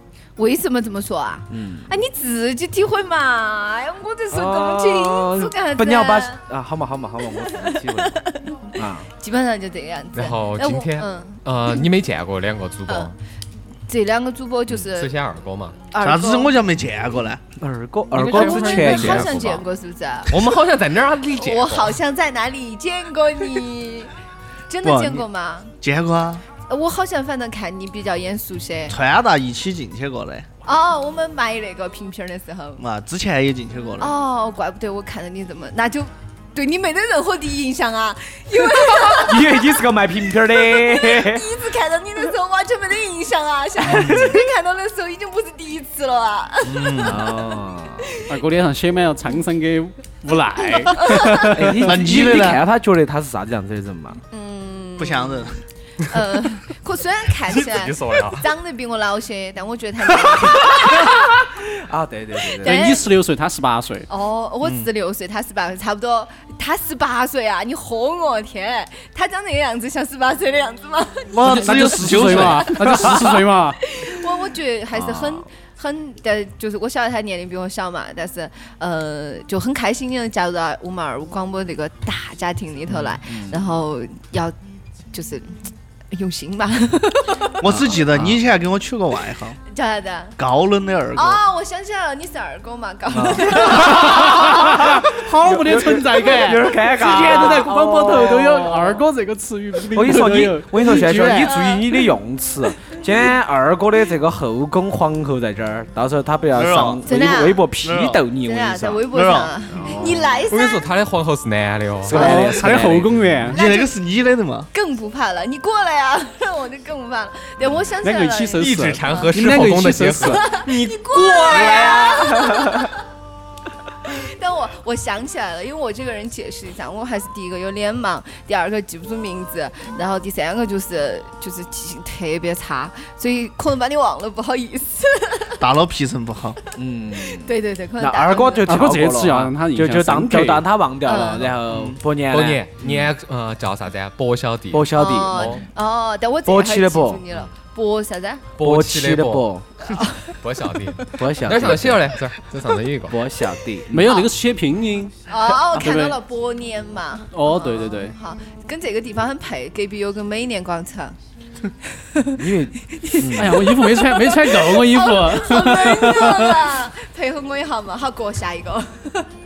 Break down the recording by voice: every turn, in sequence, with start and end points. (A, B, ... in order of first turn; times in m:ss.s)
0:00.4-0:06.4 A
0:01.5-0:01.9 B
0:04.3-0:09.1 B
0:07.4-0:11.4 A
0:10.1-0:13.1 C
0:13.9-0:15.1 A
0:14.7-0:15.8 C
0:15.9-0:16.5 A
0:16.0-0:17.4 D
0:17.6-0:19.4 B
0:18.2-0:19.6 C
0:18.2-0:18.9 E
0:18.2-0:20.4 A
0:20.3-0:22.0 C
0:21.4-0:24.1 A
0:24.7-0:25.7 A
0:24.8-0:25.2 D
0:25.8-0:26.4 D
0:26.7-0:29.0 A
0:28.9-0:30.5 D
0:30.6-0:32.8 A
0:32.8-0:34.1 D
0:34.0-0:39.6 A
0:39.0-0:41.6 B
0:40.6-0:47.3 A
0:43.9-0:44.3 B
0:46.6-0:47.2 D
0:47.0-0:48.2 B
0:48.3-0:51.9 E
0:51.0-0:51.4 A
0:51.5-0:54.2 B
0:51.8-0:52.6 D
0:54.3-0:55.4 A
0:55.0-0:55.6 D
0:56.0-1:01.1 A
0:57.5-0:58.5 C
1:00.7-1:01.1 B
1:01.7-1:02.9 B
1:02.6-1:04.1 E
1:02.6-1:03.0 A
1:04.1-1:11.4 A
1:11.3-1:13.2 D
1:11.4-1:13.8 E
1:13.9-1:24.6 A
1:14.9-1:15.5 B
1:23.0-1:23.6 B
1:25.1-1:25.6 A
1:26.1-1:27.5 A
1:27.6-1:29.6 D
1:27.8-1:28.3 B
1:29.7-1:30.4 A
1:30.4-1:31.4 D
1:31.1-1:34.6 A
1:33.1-1:39.0 B
1:34.0-1:34.5 E
1:35.1-1:41.5 E
1:39.9-1:49.1 B
1:41.5-1:41.8 A
1:46.5-1:47.0 D
1:47.0-1:47.7 A
1:47.8-1:48.2 D
1:48.4-1:50.8 A
1:49.1-1:49.5 D
1:49.7-1:50.4 B
1:50.5-1:52.4 C
1:52.0-1:53.2 B
1:52.1-1:53.6 E
1:53.5-1:54.7 D
1:53.5-1:53.9 A
1:54.7-1:59.3 A
1:58.0-2:00.5 E
1:58.6-2:02.3 C
2:00.3-2:02.9 A
2:04.1-2:15.6 A
2:15.6-2:16.6 D
2:16.8-2:23.0 B
2:17.3-2:18.7 A
2:18.6-2:20.7 E
2:21.0-2:21.5 A
2:21.7-2:22.0 D
2:22.3-2:25.6 C
2:24.7-2:25.5 B
2:25.0-2:28.5 A
2:26.5-2:27.2 B
2:28.6-2:29.5 C
2:28.6-2:29.6 B
2:29.9-2:30.3 A
2:30.4-2:33.2 C
2:31.1-2:32.1 B
2:33.1-2:34.2 B
2:33.9-2:35.2 E
2:35.3-2:41.2 A
2:35.7-2:36.2 E
2:37.3-2:38.2 E
2:42.0-2:42.4 A
2:42.4-2:43.7 B
2:42.9-2:49.3 A
2:43.3-2:46.5 E